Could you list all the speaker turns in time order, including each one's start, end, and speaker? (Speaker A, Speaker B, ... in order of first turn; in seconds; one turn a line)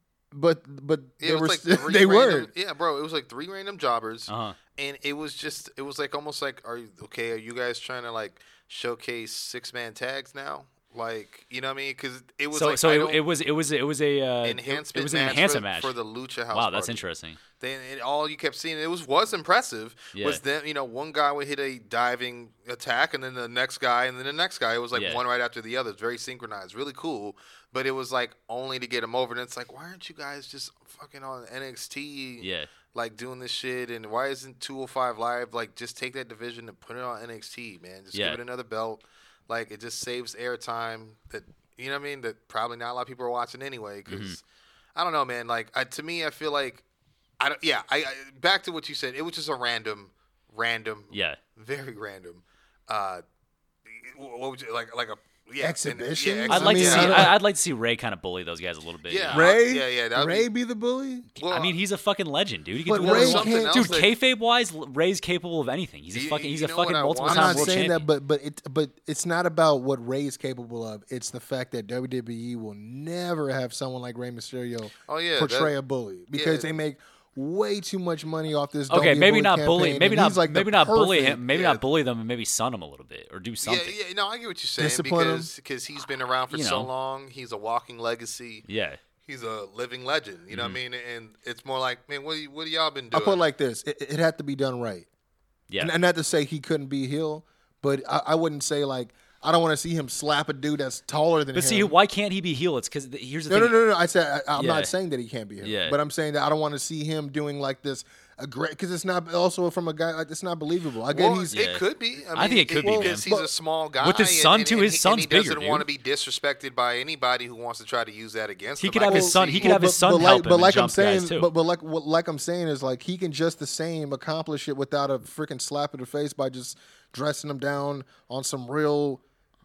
Speaker A: 0.3-2.5
Speaker B: 1.2-13.2
Speaker C: 4.3-4.6
Speaker C: 12.5-15.9
Speaker B: 14.4-17.0
Speaker C: 16.5-17.4
Speaker B: 17.6-44.4
Speaker C: 20.1-20.4
Speaker C: 24.9-25.2
Speaker C: 32.4-32.7
Speaker C: 38.1-38.4
Speaker C: 44.1-44.4
Speaker B: 44.9-46.8
Speaker B: 47.4-53.2
Speaker C: 51.1-51.4
Speaker B: 53.9-57.3
Speaker A: 55.6-57.4
Speaker C: 56.5-59.5
Speaker B: 59.0-60.5
Speaker A: 59.3-61.3
Speaker B: 61.4-61.8
Speaker C: 61.4-68.0
Speaker A: 62.9-63.9
Speaker B: 62.9-64.1
Speaker B: 66.1-67.8
Speaker A: 67.2-81.4
Speaker B: 75.1-75.7
Speaker B: 76.3-76.7
Speaker C: 78.9-83.9
Speaker B: 81.5-81.8
Speaker B: 83.6-88.6
Speaker A: 84.8-85.5
Speaker C: 86.5-86.9
Speaker C: 88.7-89.0
Speaker B: 89.2-93.4
Speaker C: 90.5-90.8
Speaker A: 93.1-95.1
Speaker A: 95.8-101.9
Speaker C: 101.5-103.8
Speaker A: 103.5-111.5
Speaker C: 104.5-104.9
Speaker C: 105.6-106.0
Speaker B: 111.1-119.8
Speaker C: 111.5-111.8
Speaker C: 112.3-113.3
Speaker A: 112.8-113.5
Speaker C: 114.0-115.8
Speaker C: 118.8-121.5
Speaker A: 119.0-129.2